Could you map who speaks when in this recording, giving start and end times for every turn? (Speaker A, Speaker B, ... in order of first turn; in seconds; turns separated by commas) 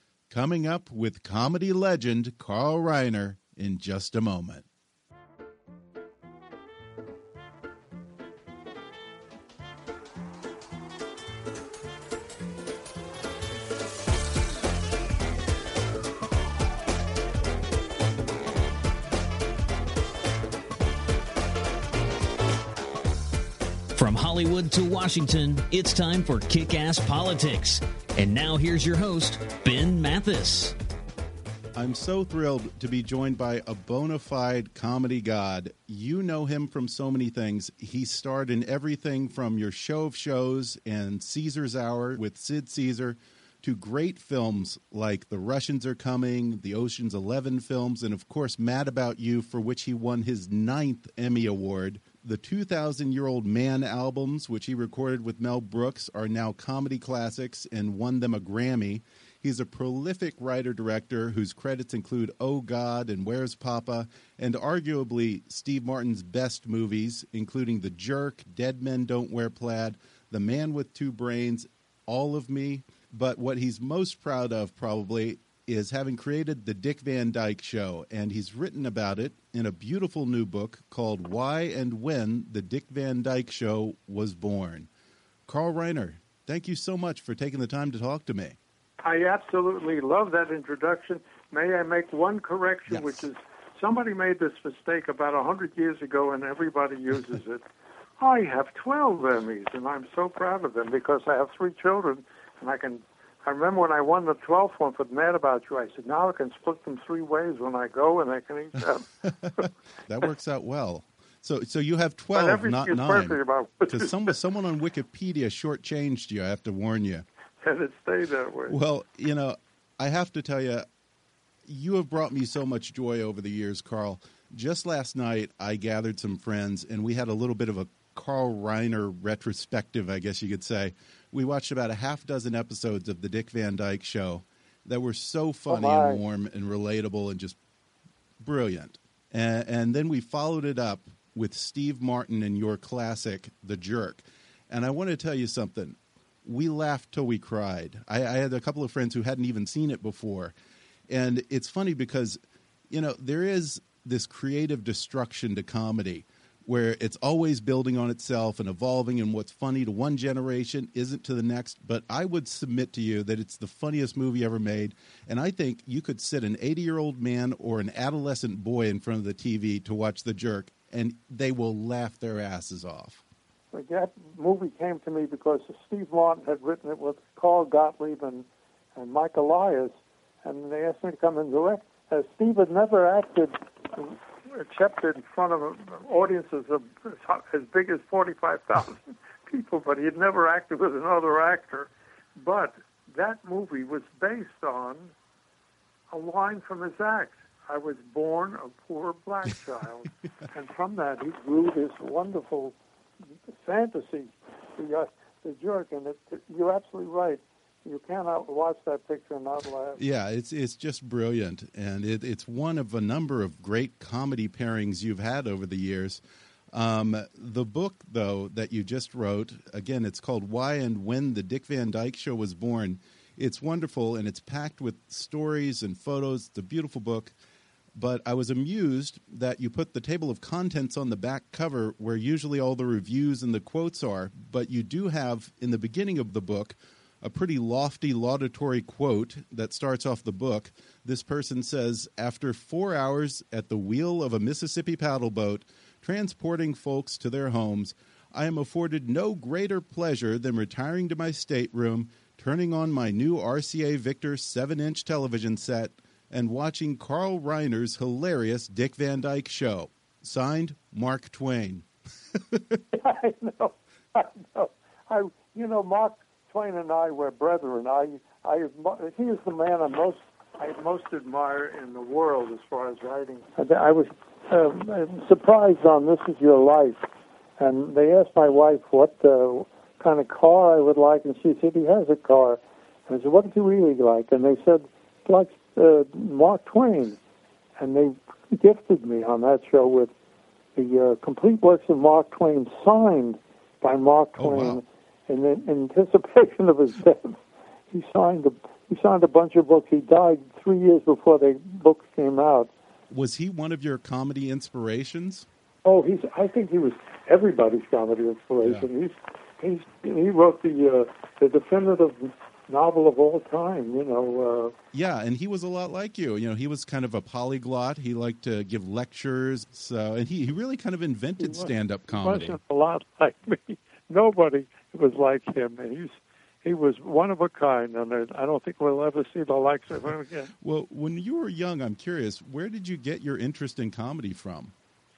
Speaker A: 0.3-4.7, Speaker B: 23.9-30.7, Speaker A: 31.8-84.9, Speaker A: 85.5-88.6, Speaker C: 89.0-97.6, Speaker A: 92.9-93.2, Speaker C: 98.2-109.6, Speaker A: 109.2-117.2, Speaker C: 112.3-114.3, Speaker C: 117.6-118.8, Speaker A: 118.7-120.8, Speaker A: 121.6-137.6, Speaker C: 135.7-136.2, Speaker A: 138.4-150.5, Speaker A: 151.1-173.2, Speaker C: 173.7-179.9, Speaker C: 180.4-195.1, Speaker C: 196.1-202.8, Speaker C: 203.6-210.0, Speaker A: 210.0-216.2, Speaker A: 216.7-227.3, Speaker A: 227.9-262.8, Speaker C: 262.9-277.0, Speaker C: 277.6-287.2, Speaker C: 287.8-290.1, Speaker C: 290.8-302.7, Speaker A: 294.4-294.8, Speaker A: 303.1-305.5, Speaker C: 305.8-314.7, Speaker A: 314.9-322.6, Speaker C: 321.4-330.5, Speaker A: 330.6-334.7